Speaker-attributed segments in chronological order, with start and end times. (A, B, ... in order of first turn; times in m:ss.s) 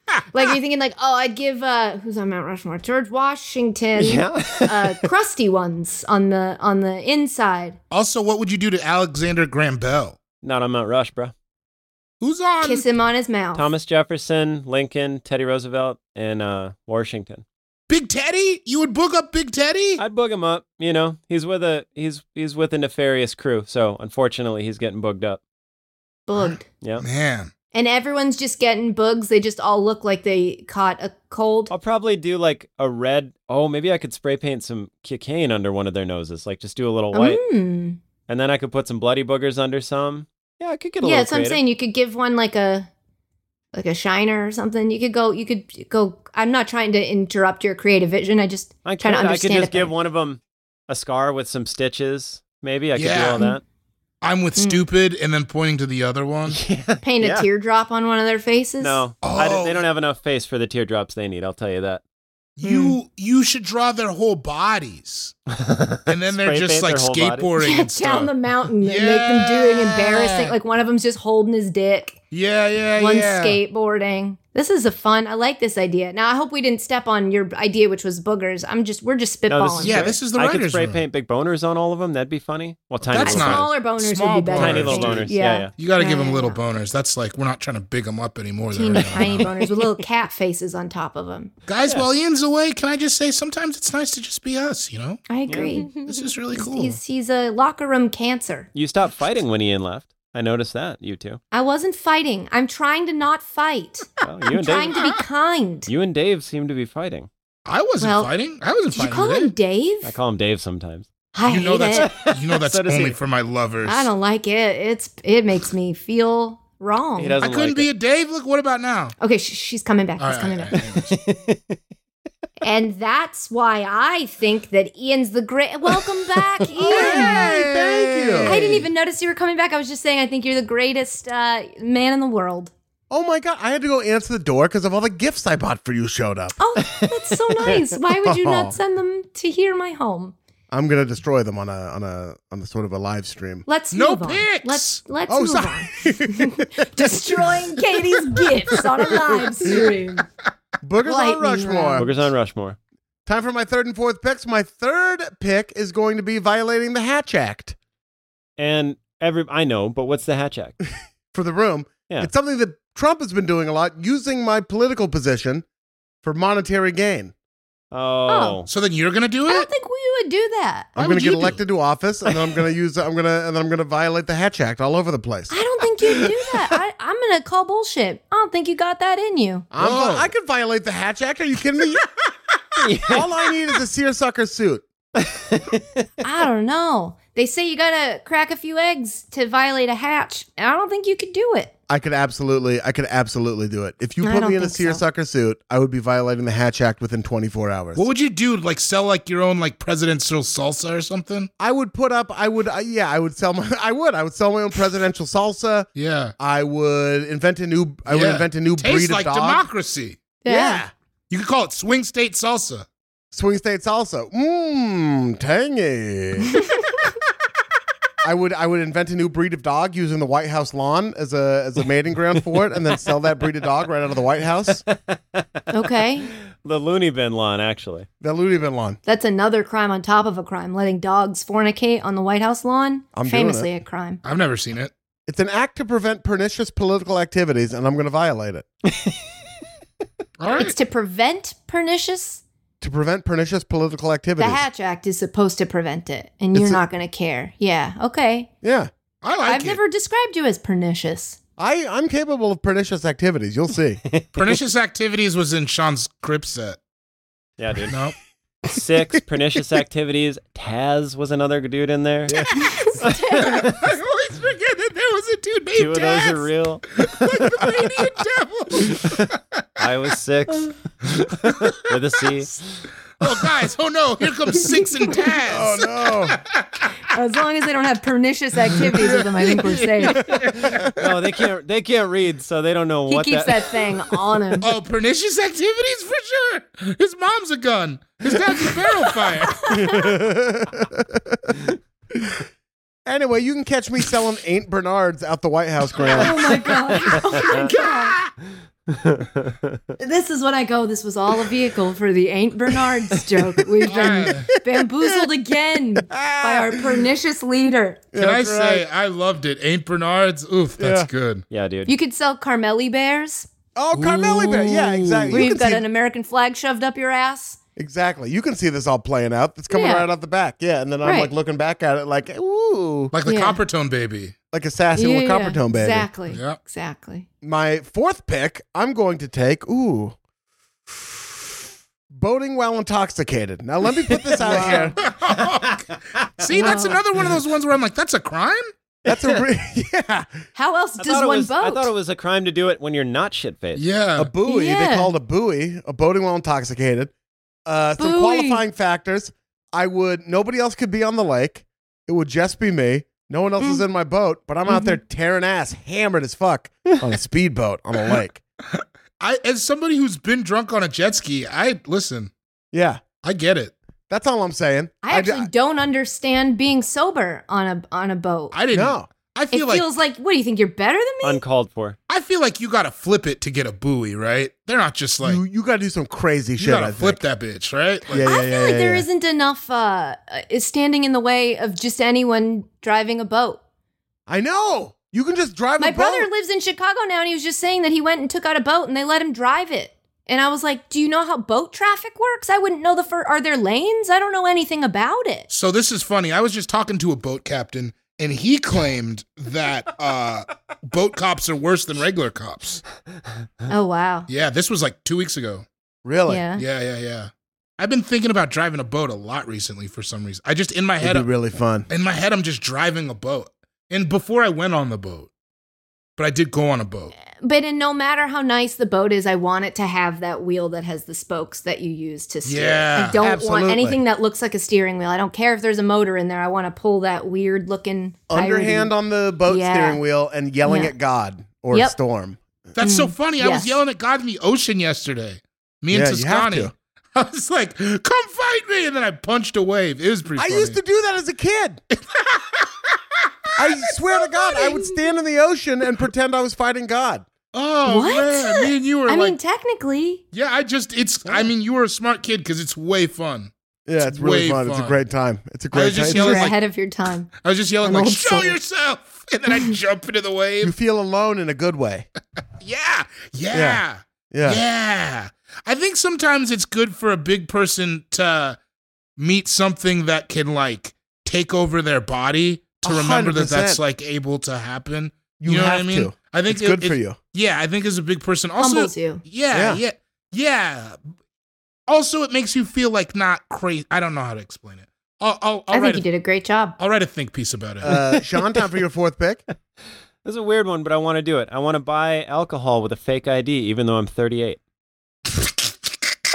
0:00.3-0:07.8 A
0:04.0-0:05.1 B
0:07.9-0:10.2 C
0:10.4-0:11.3 B
0:12.2-0:12.9 C
0:12.6-0:13.7 A
0:13.6-0:17.4 B
0:17.9-0:20.0 C
0:20.0-0:25.4 B
0:26.3-0:26.7 A
0:26.4-0:27.5 C
0:27.7-0:31.7 A
0:31.7-0:37.4 B
0:37.1-0:38.0 A
0:38.3-0:41.6 B
0:41.0-0:42.9 A
0:43.7-0:49.9 A
0:48.8-0:53.6 B
0:53.0-0:53.5 C
0:54.2-0:56.6 C
0:54.6-0:54.8 A
0:56.5-0:57.5 B
0:57.0-0:59.0 A
0:58.8-1:02.0 B
0:59.2-0:59.9 C
1:02.6-1:05.4 C
1:02.6-1:03.0 A
1:05.5-1:07.5 B
1:06.1-1:08.3 C
1:07.6-1:12.2 A
1:08.8-1:10.5 C
1:12.3-1:13.6 C
1:13.0-1:20.2 A
1:19.5-1:23.7 B
1:19.8-1:21.0 C
1:23.1-1:29.5 C
1:23.2-1:26.6 A
1:24.5-1:25.7 B
1:28.7-1:31.5 A
1:31.7-1:35.2 C
1:35.3-1:38.7 A
1:35.5-1:35.8 B
1:36.0-1:37.0 C
1:38.7-1:41.4 B
1:41.5-1:45.9 A
1:44.2-1:45.0 B
1:45.9-1:47.3 B
1:47.7-1:49.5 C
1:48.0-1:48.3 A
1:48.9-1:50.1 A
1:50.0-1:51.1 B
1:51.4-1:52.1 A
1:51.4-1:54.1 C
1:51.9-1:53.2 B
1:53.8-1:57.4 A
1:57.2-1:57.9 B
1:57.4-1:59.2 C
1:59.2-2:00.8 A
2:00.2-2:01.1 C
2:00.8-2:01.8 B
2:02.6-2:07.4 A
2:05.9-2:06.7 B
2:06.8-2:08.7 D
2:06.9-2:08.8 C
2:08.4-2:12.7 A
2:13.1-2:16.6 D
2:16.6-2:20.4 A
2:16.8-2:17.7 B
2:18.2-2:18.8 D
2:20.7-2:23.6 D
2:23.7-2:30.2 A
2:23.9-2:25.0 C
2:25.3-2:29.8 D
2:30.8-2:32.1 D
2:31.0-2:32.1 A
2:32.0-2:32.8 B
2:33.3-2:37.8 D
2:38.6-2:40.8 B
2:41.3-2:45.6 D
2:46.2-2:47.3 D
2:47.9-2:48.7 B
2:48.3-2:48.6 A
2:48.7-2:49.7 C
2:49.5-2:50.9 A
2:51.0-2:55.6 D
2:51.0-2:51.6 C
2:55.5-2:59.7 A
2:59.7-3:02.1 D
2:59.8-3:00.3 C
3:02.8-3:03.3 B
3:03.1-3:04.8 D
3:05.2-3:06.0 B
3:06.2-3:11.7 A
3:11.9-3:18.1 D
3:14.2-3:15.0 A
3:18.0-3:21.5 C
3:21.6-3:29.7 D
3:26.0-3:26.3 C
3:28.1-3:30.2 C
3:30.4-3:30.8 A
3:30.5-3:30.9 D
3:31.3-3:32.9 C
3:33.3-3:36.7 D
3:38.2-3:44.8 D
3:44.9-3:45.6 B
3:45.7-3:46.3 A
3:46.6-3:48.1 B
3:48.2-3:49.0 D
3:49.1-3:54.2 A
3:53.1-3:53.7 D
3:54.2-3:54.9 C
3:55.3-3:58.7 D
3:58.9-3:59.2 B
4:00.4-4:00.8 C
4:00.5-4:02.4 A
4:02.8-4:04.6 D
4:04.4-4:08.5 A
4:06.5-4:06.8 D
4:08.6-4:08.9 D
4:09.2-4:09.8 C
4:09.4-4:11.4 A
4:11.6-4:14.0 D
4:14.1-4:14.3 B
4:14.4-4:16.8 C
4:17.6-4:18.0 B
4:17.9-4:18.2 C
4:18.7-4:22.5 B
4:22.3-4:22.9 D
4:22.6-4:23.6 A
4:23.0-4:23.3 B
4:23.4-4:29.6 C
4:25.8-4:27.2 B
4:29.8-4:32.5 B
4:33.2-4:36.9 C
4:35.5-4:36.4 D
4:37.1-4:40.4 A
4:38.8-4:40.9 C
4:40.9-4:43.8 B
4:43.1-4:44.7 A
4:44.6-4:49.8 C
4:49.6-4:50.0 A
4:49.7-4:52.4 D
4:53.1-4:56.5 D
4:56.0-4:56.3 C
4:56.0-4:58.2 A
4:57.1-4:57.6 B
4:57.3-4:58.3 C
4:58.9-4:59.8 B
5:00.0-5:08.1 A
5:03.8-5:05.3 D
5:03.9-5:04.5 C
5:06.0-5:07.0 D
5:08.1-5:08.9 D
5:08.2-5:11.5 C
5:10.8-5:11.1 D
5:11.5-5:11.9 B
5:11.9-5:13.5 A
5:13.8-5:15.8 D
5:13.9-5:15.5 C
5:15.3-5:17.6 A
5:17.8-5:23.1 D
5:19.7-5:20.1 A
5:21.0-5:21.3 A
5:23.1-5:24.4 C
5:23.2-5:23.6 A
5:24.5-5:26.1 D
5:25.0-5:27.3 A
5:26.3-5:26.6 C
5:27.4-5:30.2 D
5:32.1-5:35.0 D
5:34.1-5:35.8 B
5:34.4-5:34.9 A
5:34.5-5:38.7 C
5:36.4-5:36.7 B
5:36.6-5:37.0 A
5:39.1-5:40.4 D
5:39.1-5:39.4 B
5:40.6-5:41.9 A
5:41.0-5:43.8 B
5:43.8-5:44.3 C
5:44.2-5:47.1 D
5:44.4-5:45.1 A
5:47.7-5:58.4 D
5:48.0-5:48.6 A
5:54.7-5:55.0 A
5:58.8-6:02.3 C
6:02.7-6:03.0 D
6:03.2-6:03.7 C
6:04.1-6:05.5 D
6:05.0-6:08.5 A
6:08.5-6:09.9 C
6:08.7-6:09.1 D
6:09.5-6:11.4 A
6:11.2-6:12.0 B
6:12.1-6:15.4 C
6:15.2-6:17.2 D
6:16.6-6:18.3 C
6:18.1-6:19.1 D
6:18.1-6:23.6 A
6:24.3-6:26.3 D
6:25.8-6:35.5 A
6:35.5-6:42.8 C
6:43.7-6:44.3 A
6:44.3-6:45.7 C
6:46.0-6:46.4 D
6:46.3-6:46.6 A
6:46.6-6:51.3 C
6:51.0-6:51.9 D
6:51.9-6:55.3 C
6:56.2-6:57.1 C
6:57.4-7:08.9 A
7:02.4-7:03.2 C
7:03.2-7:04.0 D
7:08.3-7:12.4 D
7:09.5-7:10.0 A
7:10.6-7:10.9 A
7:11.7-7:12.0 A
7:12.8-7:20.8 C
7:12.8-7:13.8 A
7:15.9-7:16.7 D
7:20.4-7:21.8 D
7:21.9-7:23.0 C
7:23.6-7:27.3 D
7:27.5-7:29.4 C
7:27.8-7:30.2 A
7:30.3-7:35.0 C
7:33.9-7:36.5 D
7:35.7-7:36.6 C
7:36.1-7:37.3 A
7:37.4-7:40.7 C
7:37.8-7:38.6 A
7:40.6-7:42.1 D
7:42.6-7:48.6 C
7:43.5-7:44.6 D
7:49.2-8:01.0 C
7:52.8-7:53.8 D
7:55.4-7:57.2 D
7:58.6-7:59.2 A
7:59.5-7:59.8 D
8:01.9-8:06.0 C
8:05.7-8:06.8 A
8:06.8-8:08.0 C
8:07.8-8:09.4 D
8:10.2-8:14.6 B